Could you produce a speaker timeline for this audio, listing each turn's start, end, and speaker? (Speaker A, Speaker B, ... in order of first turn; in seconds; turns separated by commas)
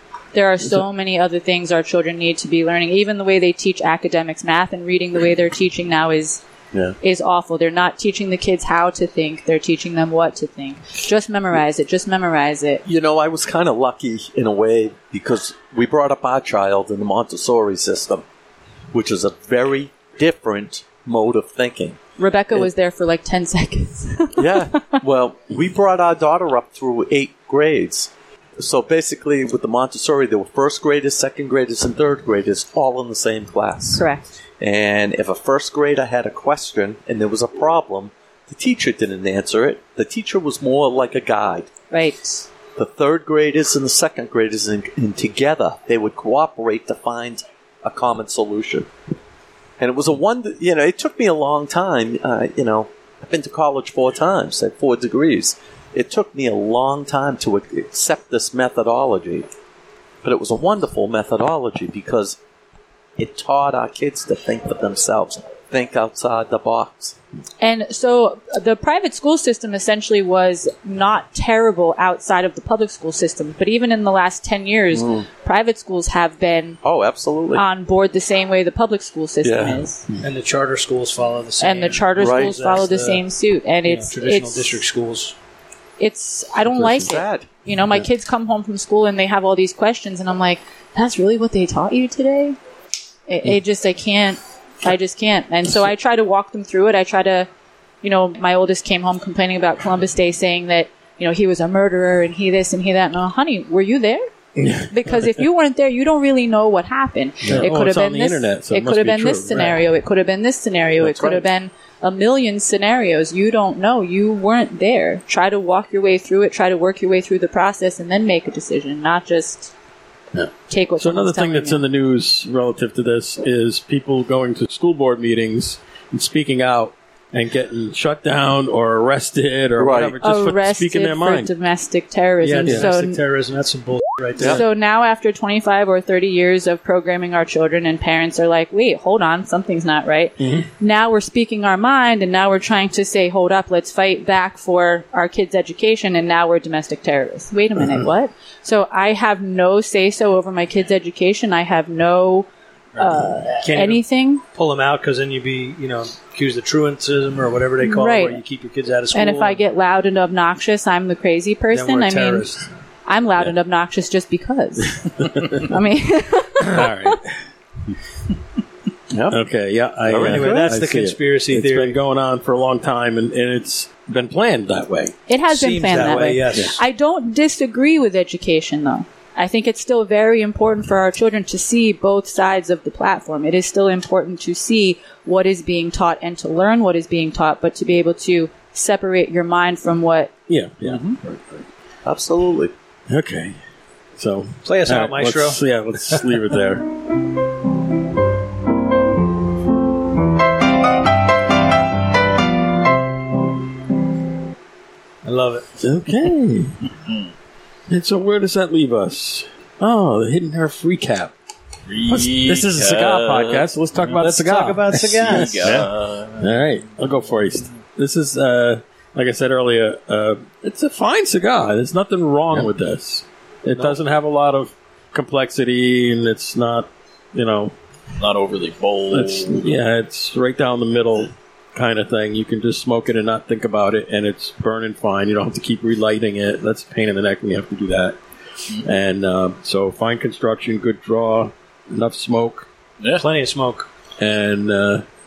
Speaker A: 0.3-6.4, Speaker A: 7.0-12.8, Speaker B: 12.9-18.2, Speaker B: 18.9-22.0, Speaker A: 22.2-25.0, Speaker B: 24.4-34.0, Speaker A: 33.9-34.3, Speaker B: 34.6-41.7, Speaker A: 41.9-42.5, Speaker B: 42.8-48.9, Speaker B: 49.8-59.5, Speaker B: 60.2-62.4, Speaker B: 63.2-67.2, Speaker A: 67.6-76.8, Speaker B: 74.9-75.3, Speaker B: 76.8-77.7, Speaker A: 77.5-80.0, Speaker B: 79.4-79.8, Speaker C: 80.2-83.2, Speaker A: 81.6-84.8, Speaker B: 82.2-82.6, Speaker C: 83.8-85.3, Speaker A: 86.0-92.6, Speaker B: 86.7-87.5, Speaker A: 93.3-97.5, Speaker A: 98.0-104.3, Speaker D: 104.6-105.1, Speaker A: 104.9-119.7, Speaker D: 107.5-109.8, Speaker B: 111.0-111.5, Speaker D: 120.3-131.5, Speaker A: 120.7-121.8, Speaker B: 129.8-130.2, Speaker A: 130.2-133.2, Speaker C: 132.4-134.6, Speaker D: 132.6-132.9, Speaker A: 134.4-154.4, Speaker D: 140.4-140.7, Speaker C: 153.6-154.0, Speaker C: 154.5-159.6, Speaker A: 157.8-158.4, Speaker A: 159.1-162.5, Speaker C: 161.7-162.7, Speaker A: 163.1-167.2, Speaker D: 166.7-167.3, Speaker B: 169.1-169.4, Speaker D: 169.3-175.2, Speaker B: 170.1-170.7, Speaker C: 170.2-172.0, Speaker A: 175.3-190.3, Speaker C: 175.5-176.8, Speaker D: 190.5-191.4, Speaker B: 190.8-191.2, Speaker B: 192.1-192.7, Speaker D: 193.1-193.6, Speaker D: 194.2-196.9, Speaker C: 194.7-195.6, Speaker C: 205.2-205.7, Speaker D: 205.8-206.8, Speaker D: 207.9-211.3, Speaker E: 211.9-214.2, Speaker D: 212.1-227.7, Speaker C: 214.2-215.6, Speaker E: 215.2-216.7, Speaker E: 228.2-229.7, Speaker D: 229.1-238.2, Speaker D: 238.8-242.7, Speaker C: 243.2-243.9, Speaker D: 244.2-245.0